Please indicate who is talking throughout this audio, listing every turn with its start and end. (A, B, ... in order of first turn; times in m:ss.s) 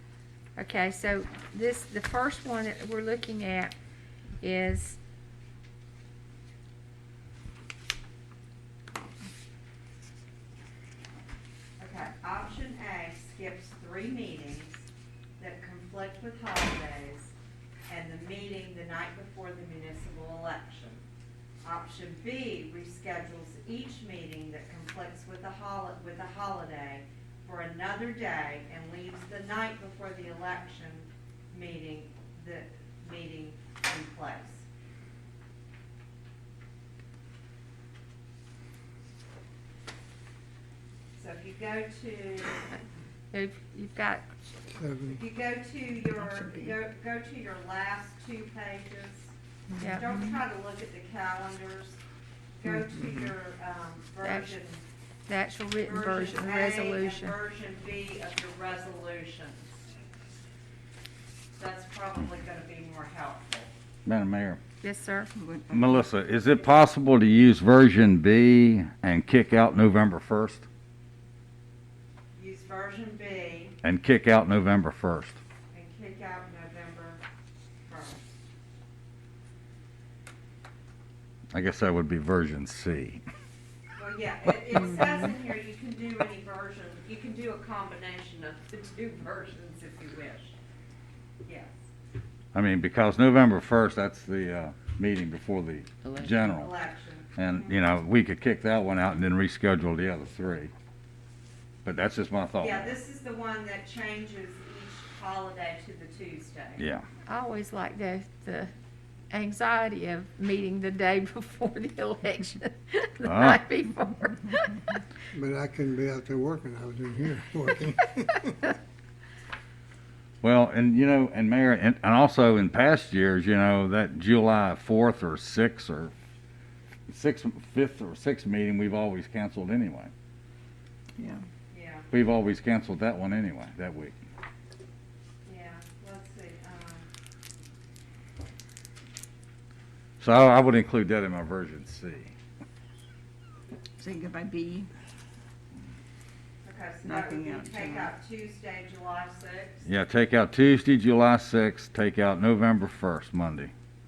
0:00.6-0:03.7 A
0:04.4-0:05.0 A
0:11.8-0:14.9 B
0:15.4-0:17.3 B
0:17.9-0:21.0 B
0:21.6-0:34.6 B
0:41.2-0:42.8 B
0:43.3-0:44.3 A
0:44.7-0:45.2 C
0:45.1-0:52.0 B
0:46.2-0:46.7 D
0:49.8-0:50.0 A
0:52.6-0:54.8 B
0:54.2-0:54.6 A
0:55.3-0:57.3 A
0:55.8-0:59.8 B
1:01.5-1:03.7 B
1:04.0-1:04.6 E
1:04.8-1:05.3 A
1:05.4-1:05.8 D
1:05.7-1:10.6 E
1:12.3-1:13.8 B
1:13.8-1:15.4 E
1:15.7-1:17.2 B
1:17.9-1:18.2 B
1:21.5-1:23.2 E
1:24.0-1:30.6 B
1:31.4-1:31.8 B
1:32.5-1:36.7 E
1:36.0-1:36.3 D
1:36.5-1:37.8 B
1:37.4-1:40.7 E
1:41.8-1:42.9 E
1:42.6-1:46.8 B
1:46.8-1:47.0 E
1:47.2-1:48.7 A
1:49.3-1:55.0 A
1:53.2-1:53.6 E
1:55.3-1:58.6 C
2:00.4-2:06.1 E
2:07.1-2:10.1 E
2:11.7-2:12.1 B
2:12.1-2:14.1 E
2:15.4-2:17.1 B
2:20.2-2:22.3 E
2:24.0-2:24.9 D
2:26.6-2:29.8 B
2:27.0-2:28.1 D
2:29.8-2:33.7 E